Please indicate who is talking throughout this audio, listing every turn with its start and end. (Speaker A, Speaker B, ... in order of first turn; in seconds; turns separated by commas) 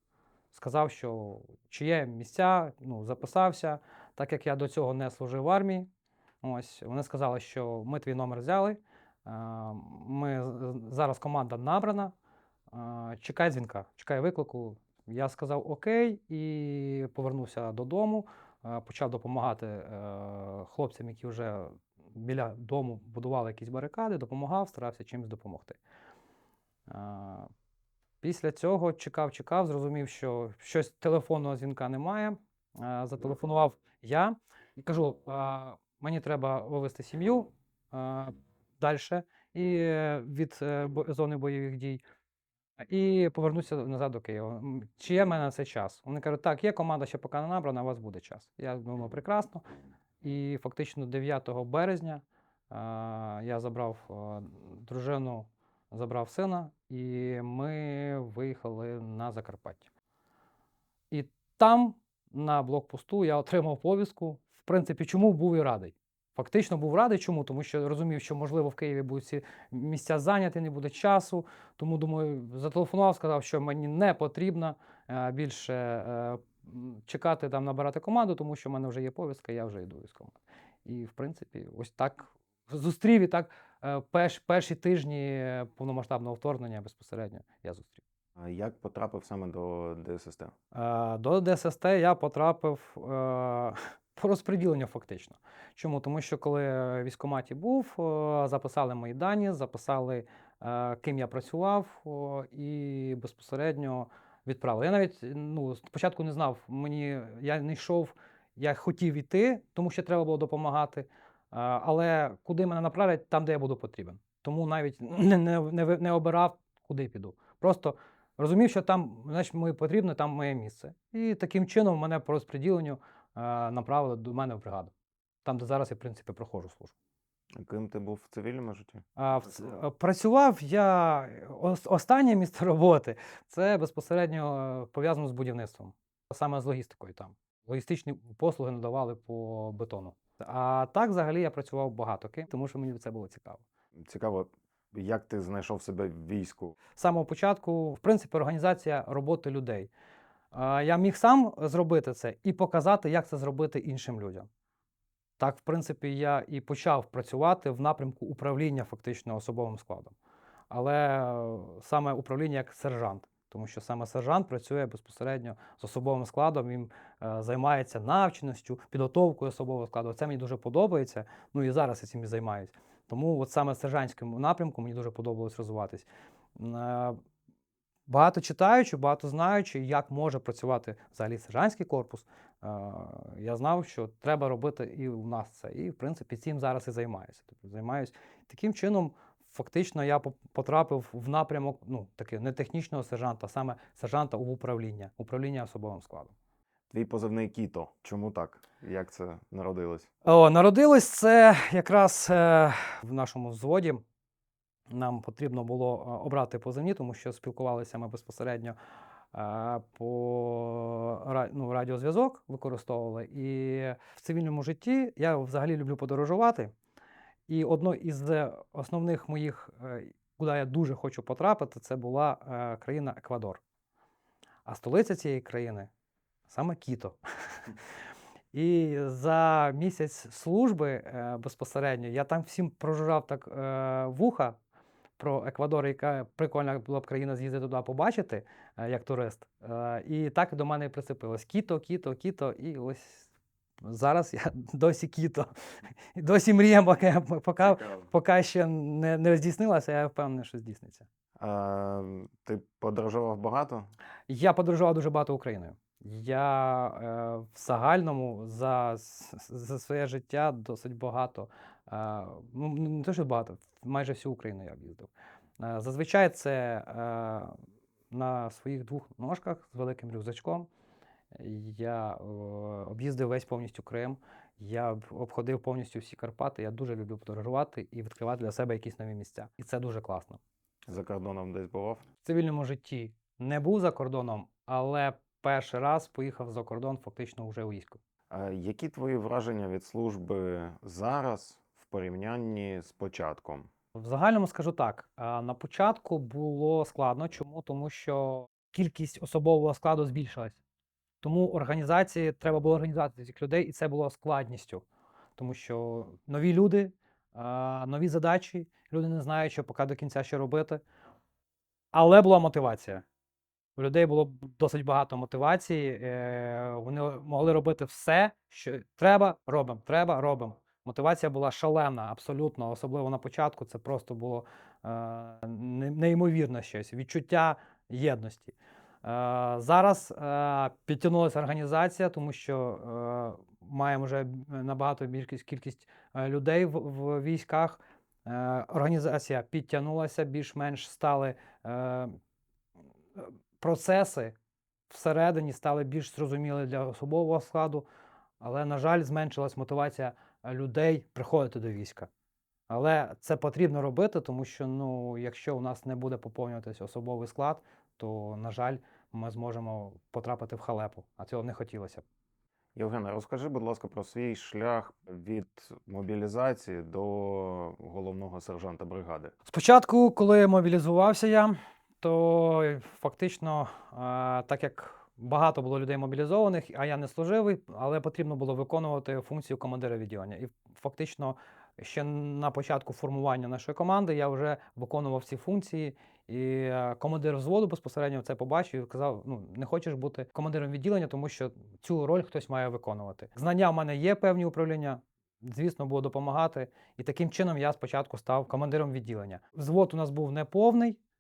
Speaker A: 0.5-5.9, Speaker A: 6.4-12.1, Speaker A: 12.7-25.8, Speaker A: 26.9-27.5, Speaker A: 28.2-42.0, Speaker A: 42.8-49.6, Speaker A: 50.2-59.9, Speaker A: 61.1-88.0, Speaker B: 88.4-90.5, Speaker A: 90.7-124.9, Speaker A: 125.4-126.9, Speaker B: 127.6-129.1, Speaker A: 129.2-143.6, Speaker B: 143.9-146.8, Speaker A: 147.0-149.9, Speaker A: 150.5-154.5, Speaker A: 155.4-160.2, Speaker A: 160.7-176.1, Speaker A: 176.6-177.2, Speaker A: 178.1-196.3, Speaker B: 196.9-200.1, Speaker A: 200.2-204.0, Speaker A: 204.9-208.8, Speaker A: 209.3-216.7, Speaker A: 217.5-223.6, Speaker A: 224.7-225.9, Speaker A: 226.5-227.2, Speaker A: 228.5-234.6, Speaker A: 235.2-243.3, Speaker A: 243.8-245.5, Speaker A: 246.2-251.1, Speaker B: 251.4-253.9, Speaker A: 254.3-265.1, Speaker A: 265.6-267.6, Speaker A: 268.1-270.7, Speaker A: 271.4-280.4, Speaker B: 280.9-282.1, Speaker A: 282.2-288.0, Speaker B: 288.3-293.7, Speaker A: 293.9-300.6, Speaker A: 301.2-304.8, Speaker A: 305.4-310.8, Speaker A: 311.9-313.1, Speaker A: 313.8-342.2, Speaker A: 343.2-344.4, Speaker A: 344.9-347.9, Speaker A: 348.4-352.1, Speaker A: 352.7-362.0, Speaker B: 362.8-369.3, Speaker A: 369.5-401.0